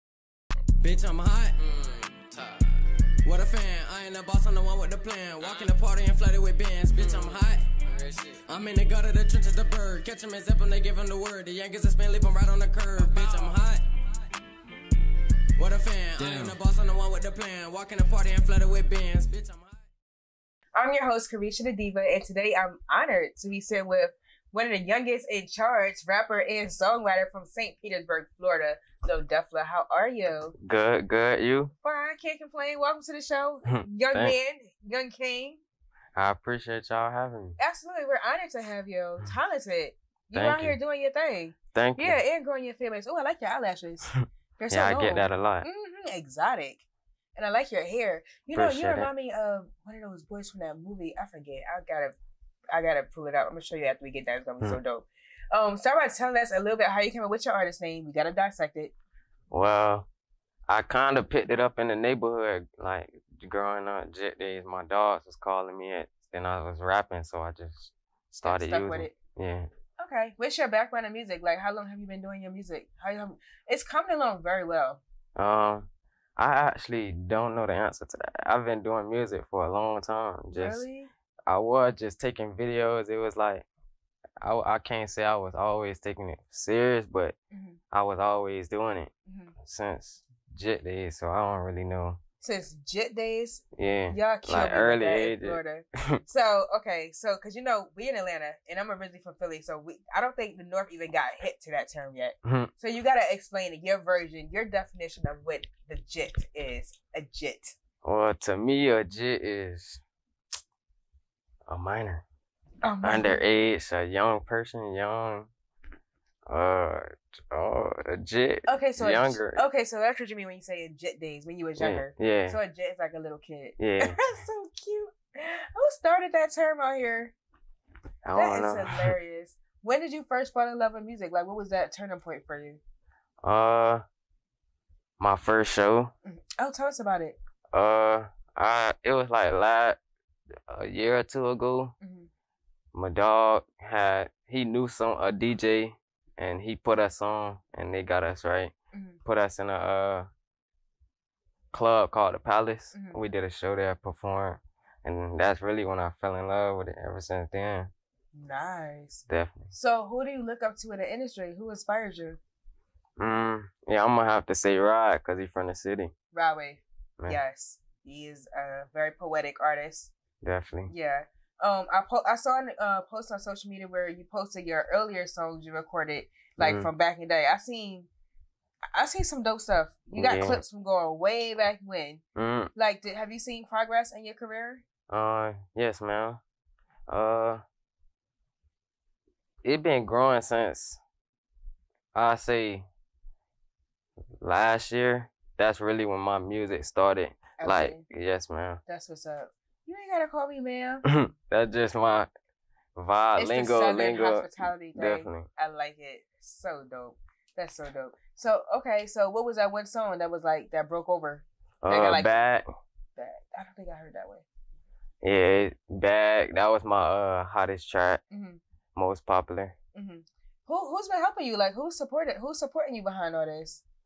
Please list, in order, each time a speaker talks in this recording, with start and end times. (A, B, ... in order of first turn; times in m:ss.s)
0:00.8-0:02.5 A
0:01.1-0:01.8 B
0:03.3-0:13.8 A
0:03.3-0:13.8 B
0:15.6-0:19.6 A
0:16.2-0:19.7 B
0:20.8-0:30.6 C
0:30.6-0:31.7 A
0:31.8-0:35.6 C
0:33.7-0:34.4 A
0:36.2-0:37.6 A
0:37.6-0:46.8 C
0:40.3-0:40.8 A
0:41.7-0:42.2 A
0:44.1-0:45.7 A
0:47.4-0:52.2 C
0:48.6-0:49.1 A
0:52.7-0:58.9 C
0:59.5-1:00.1 A
1:00.7-1:09.7 A
1:08.4-1:09.2 C
1:10.0-1:15.0 C
1:15.4-1:15.9 A
1:16.4-1:20.8 A
1:20.6-1:21.1 C
1:21.5-1:23.7 A
1:24.4-1:27.4 A
1:27.5-1:27.8 C
1:27.9-1:29.1 A
1:29.3-1:29.6 C
1:29.6-1:32.2 A
1:32.4-1:47.8 C
1:33.8-1:36.2 A
1:48.0-1:50.0 A
1:51.7-1:52.2 A
1:52.8-1:53.4 C
1:53.0-1:55.5 A
1:56.5-1:59.6 A
1:58.7-2:07.3 C
2:01.8-2:02.6 A
2:03.8-2:04.2 A
2:08.3-2:09.1 A
2:08.3-2:12.8 C
2:13.4-2:14.0 A
2:15.2-2:16.1 A
2:16.2-2:17.4 C
2:17.7-2:20.0 A
2:20.7-2:21.9 A
2:22.0-2:22.3 C
2:22.9-2:28.7 A
2:28.9-2:29.2 C
2:29.2-2:30.3 A
2:31.7-2:37.9 A
2:32.9-2:33.2 C
2:38.3-2:42.4 C
2:39.3-2:39.7 A
2:43.2-2:46.1 A
2:46.3-2:50.1 C
2:50.4-2:50.9 A
2:50.9-2:58.1 C
2:56.6-2:56.9 A
2:58.9-3:02.2 C
3:00.1-3:00.6 A
3:02.4-3:02.7 A
3:02.8-3:04.8 C
3:05.1-3:06.4 A
3:07.1-3:07.6 A
3:09.6-3:11.0 A
3:12.1-3:12.9 A
3:14.4-3:18.8 A
3:17.6-3:18.0 C
3:18.9-3:21.0 C
3:21.1-3:22.3 A
3:23.0-3:25.5 A
3:23.4-3:32.5 C
3:31.8-3:32.7 A
3:33.2-3:34.4 C
3:35.2-3:38.2 A
3:38.3-3:38.6 C
3:39.0-3:39.8 A
3:40.0-3:43.8 C